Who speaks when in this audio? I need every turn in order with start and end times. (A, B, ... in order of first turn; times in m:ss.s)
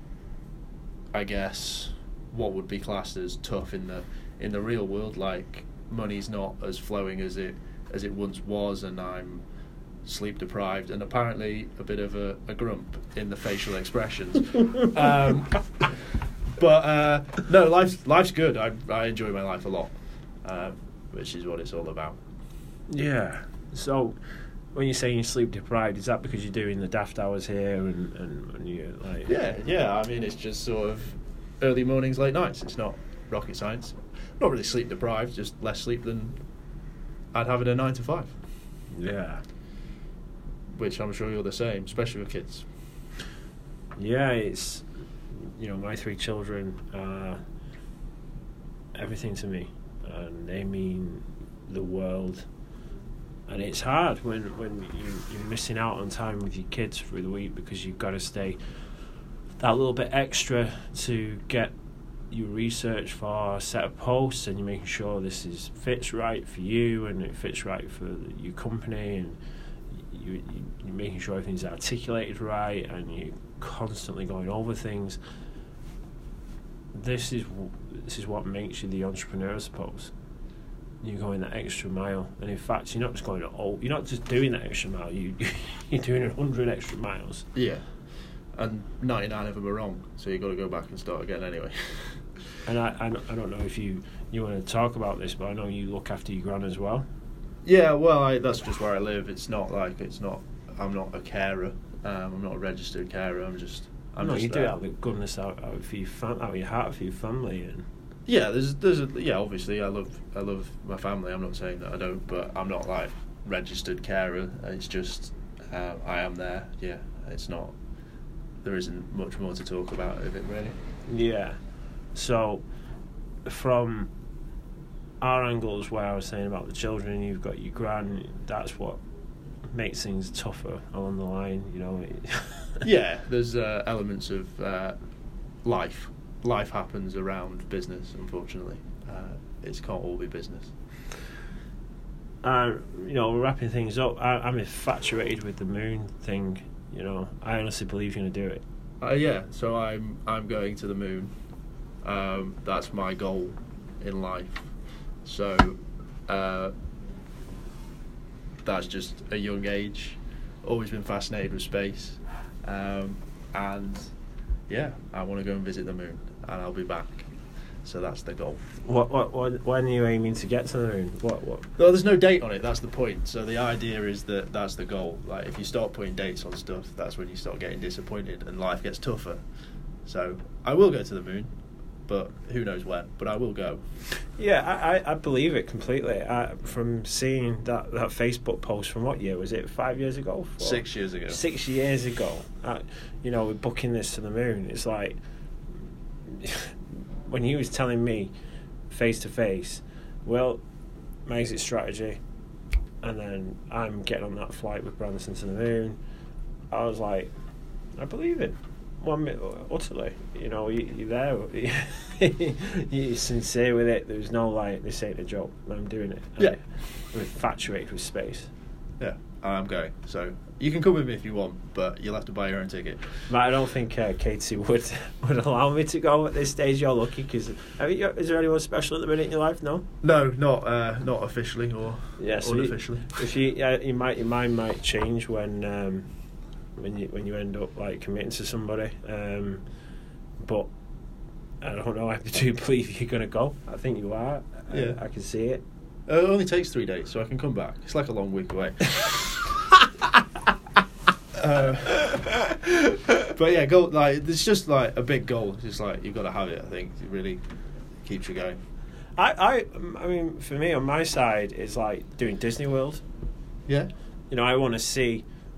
0:01.1-0:09.4 A
0:10.0-0:22.2 A
0:22.9-0:24.2 B
0:24.7-0:29.3 B
0:29.3-0:36.4 A
0:37.3-0:38.4 A
0:38.9-0:39.4 B
0:40.8-0:42.7 A
0:44.0-0:47.4 B
0:49.0-0:52.5 B
0:53.5-0:58.6 B
0:59.6-1:01.7 B
1:02.3-1:09.4 B
1:09.9-1:15.2 B
1:16.9-1:20.1 B
1:21.0-1:27.5 B
1:27.6-1:27.8 A
1:28.6-1:32.3 A
1:32.7-1:37.0 B
1:37.6-1:44.8 A
1:44.2-1:47.9 B
1:48.2-1:57.8 A
1:58.6-2:00.8 A
2:01.1-2:01.6 B
2:02.2-2:02.6 B
2:03.5-2:04.1 B
2:05.2-2:09.0 B
2:09.7-2:12.8 B
2:12.8-2:15.0 A
2:15.6-2:20.7 A
2:22.4-2:28.6 B
2:29.0-2:31.3 A
2:32.0-2:34.7 A
2:35.2-2:36.7 A
2:38.6-2:44.1 A
2:44.7-2:47.3 A
2:47.8-2:48.6 A
2:48.8-2:51.7 B
2:51.8-2:59.4 A
3:00.0-3:01.5 A
3:02.1-3:03.8 A
3:04.4-3:15.2 B
3:10.6-3:11.4 A
3:16.3-3:18.3 B
3:18.9-3:20.6 B
3:21.3-3:22.2 B
3:23.0-3:26.0 B
3:26.7-3:27.3 B
3:28.0-3:38.5 B
3:39.0-3:43.3 A
3:43.3-3:49.9 B
3:50.0-3:53.2 A
3:52.2-3:56.1 B
3:56.8-3:59.6 B
4:00.4-4:00.7 B
4:01.6-4:05.6 B
4:04.7-4:05.0 A
4:06.1-4:09.4 A
4:11.4-4:17.4 A
4:18.0-4:18.6 A
4:19.2-4:23.0 B
4:24.3-4:25.2 B